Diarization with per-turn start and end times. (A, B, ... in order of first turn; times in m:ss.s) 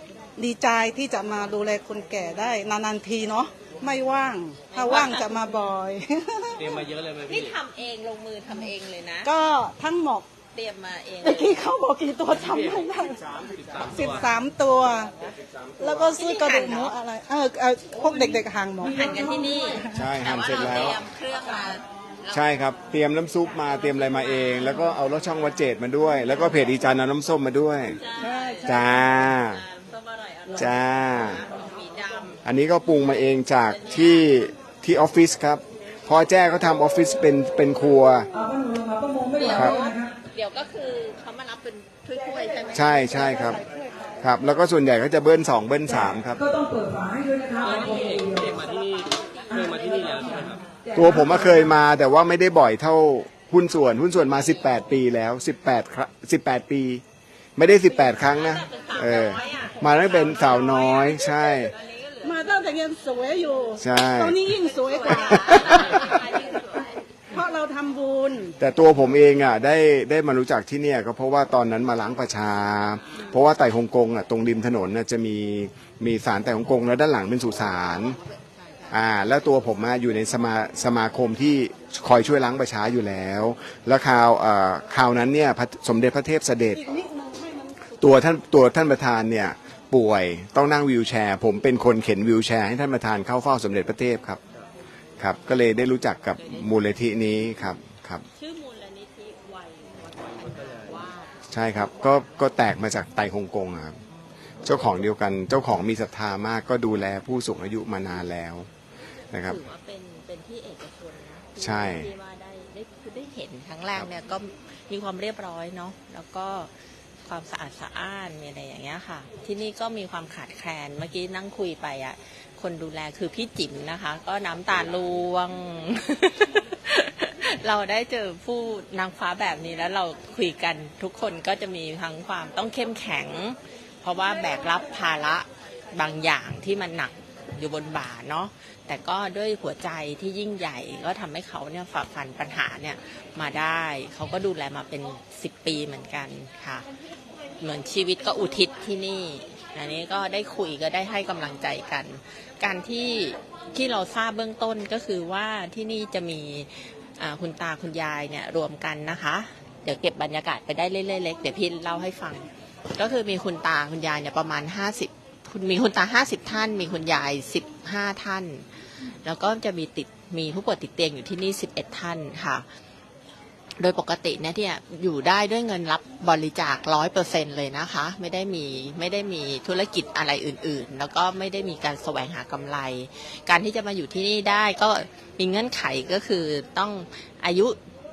0:00.4-0:06.5 A
0:04.7-0:05.6 B
0:06.6-0:07.5 C
0:07.3-0:09.3 B
0:09.2-0:10.3 A
0:10.5-0:11.7 B
0:11.2-0:13.2 A
0:12.3-0:14.5 C
0:13.4-0:14.0 D
0:13.9-0:15.1 A
0:15.8-0:16.1 D
0:15.8-0:19.0 A
0:16.1-0:17.0 B
0:18.8-0:19.9 E
0:18.9-0:22.4 B
0:19.9-0:21.0 D
0:22.3-0:28.0 D
0:27.8-0:32.4 B
0:28.7-0:29.6 D
0:30.6-0:31.4 D
0:32.4-0:38.3 D
0:33.5-0:34.3 B
0:38.3-0:40.1 E
0:39.4-0:43.1 B
0:42.7-0:43.6 D
0:43.0-0:44.1 A
0:44.2-0:46.4 D
0:45.9-0:48.6 E
0:47.6-0:50.6 C
0:48.6-0:49.7 B
0:49.6-0:50.3 E
0:50.8-0:51.8 E
0:51.0-0:57.0 D
0:57.6-1:01.7 D
0:58.2-1:02.4 B
1:02.2-1:06.4 A
1:03.8-1:04.4 D
1:04.5-1:07.1 B
1:07.3-1:08.6 A
1:08.6-1:18.2 D
1:18.9-1:26.8 D
1:26.8-1:27.8 A
1:28.0-1:34.4 D
1:35.2-1:38.2 D
1:36.4-1:36.7 B
1:38.4-1:41.4 B
1:40.2-1:40.9 C
1:41.5-1:44.0 D
1:44.6-1:48.7 D
1:49.3-1:49.6 D
1:49.4-1:56.7 B
1:51.6-1:52.1 D
1:57.3-2:26.9 B
2:27.6-2:48.6 B
2:49.2-2:52.6 B
2:53.8-3:07.8 B